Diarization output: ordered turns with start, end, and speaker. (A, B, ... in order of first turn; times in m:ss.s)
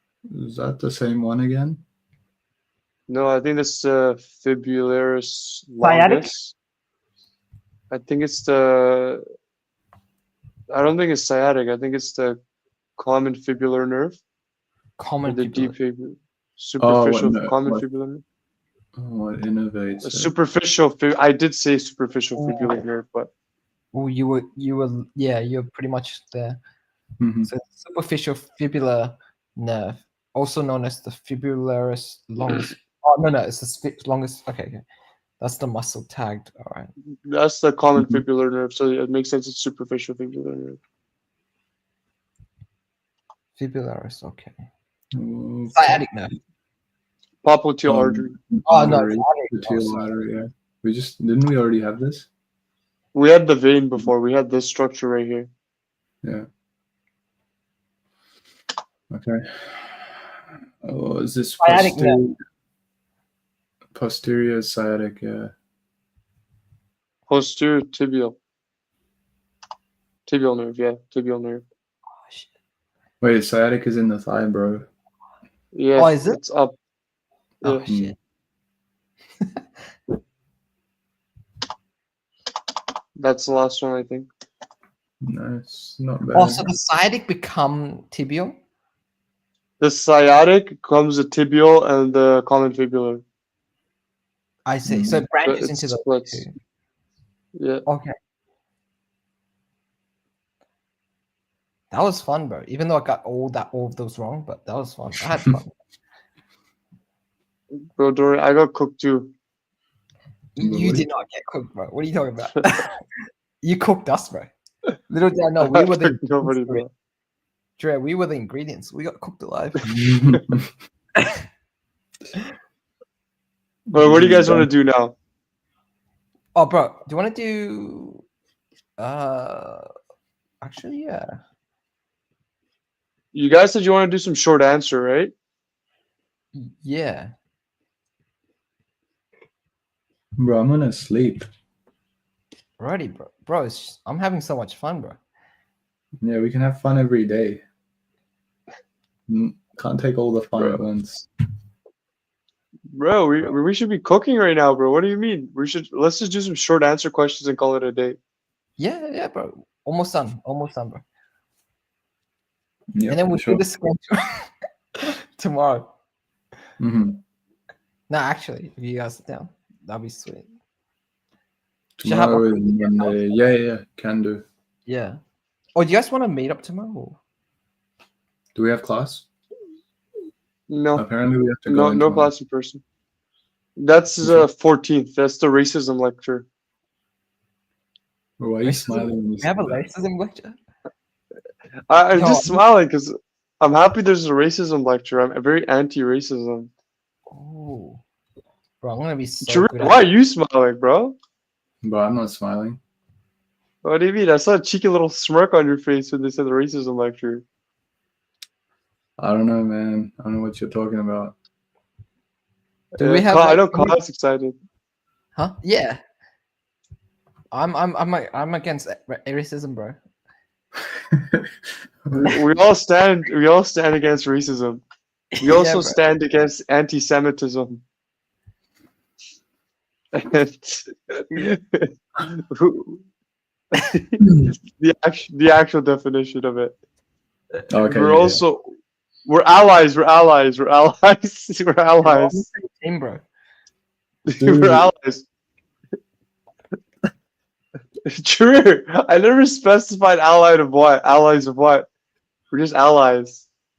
0:00.3-0:01.8 A
0:03.1-0:06.6 B
0:05.8-0:06.3 C
0:07.9-0:09.2 B
0:10.7-0:12.4 B
0:13.0-0:14.2 B
0:15.0-0:15.8 C
0:15.2-0:18.2 B
0:16.8-0:17.8 A
0:19.0-0:20.3 A
0:20.0-0:23.3 B
0:22.4-0:22.8 C
0:23.9-0:26.6 C
0:27.2-0:27.5 A
0:27.5-0:34.8 C
0:35.4-0:36.9 C
0:37.3-0:40.8 B
0:38.0-0:38.2 A
0:43.6-0:44.6 C
0:45.1-0:46.0 A
0:45.7-0:46.3 C
0:47.4-0:48.3 B
0:47.9-0:52.3 A
0:48.7-0:50.1 C
0:53.2-0:55.5 B
0:59.1-1:00.2 A
1:00.8-1:02.4 A
1:01.6-1:02.2 C
1:03.9-1:05.5 A
1:07.3-1:08.4 B
1:10.3-1:11.6 B
1:13.2-1:14.9 A
1:15.7-1:16.8 B
1:16.0-1:16.4 C
1:17.6-1:18.2 C
1:17.9-1:18.1 A
1:23.2-1:24.3 B
1:25.2-1:26.7 A
1:26.3-1:28.6 C
1:29.8-1:33.2 B
1:34.7-1:36.5 C
1:34.9-1:35.2 A
1:35.4-1:36.4 B
1:37.6-1:37.8 B
1:37.9-1:38.1 C
1:41.9-1:45.7 C
1:48.0-1:49.3 B
1:50.6-1:52.9 C
1:50.6-1:51.0 A
1:53.6-1:54.5 C
1:55.1-1:56.9 C
1:55.6-1:56.9 B
1:57.8-1:59.9 C
1:59.9-2:00.7 A
2:03.9-2:05.2 B
2:04.0-2:04.7 A
2:06.5-2:08.2 C
2:09.0-2:09.9 C
2:10.6-2:11.4 C
2:13.3-2:15.3 B
2:16.5-2:17.3 C
2:20.4-2:21.5 A
2:22.8-2:25.2 C
2:26.2-2:27.6 A
2:29.3-2:31.3 A
2:32.9-2:38.2 B
2:38.8-2:41.0 C
2:43.0-2:43.6 A
2:43.1-2:44.5 C
2:45.4-2:45.9 C
2:46.8-2:47.2 A
2:48.1-2:50.5 C
2:52.0-2:54.4 A
2:52.0-2:53.2 C
2:54.9-2:55.2 C
2:55.8-2:57.2 C
2:58.6-2:59.2 A
3:00.7-3:01.0 B
3:01.0-3:02.3 A
3:01.7-3:02.8 B
3:03.8-3:06.5 B
3:08.4-3:09.8 A
3:08.6-3:10.6 C
3:11.9-3:16.7 B
3:12.1-3:12.6 C
3:17.3-3:18.0 C
3:18.8-3:20.0 C
3:19.4-3:21.2 B
3:21.8-3:22.8 A
3:23.8-3:27.4 B
3:29.2-3:31.4 A
3:33.0-3:34.6 B
3:33.0-3:34.0 C
3:35.4-3:36.0 C
3:37.5-3:40.0 C
3:41.1-3:41.5 A
3:42.1-3:42.3 A
3:42.2-3:44.8 B
3:45.4-3:46.0 C
3:45.4-3:47.8 B
3:50.1-3:53.0 B
3:53.8-3:54.2 B
3:54.8-3:56.8 B
3:57.7-3:58.4 A
3:57.8-3:58.6 B
3:59.2-4:02.5 B
4:02.0-4:03.2 C
4:04.3-4:05.3 B
4:04.4-4:04.9 A
4:08.1-4:11.9 B
4:12.5-4:13.5 B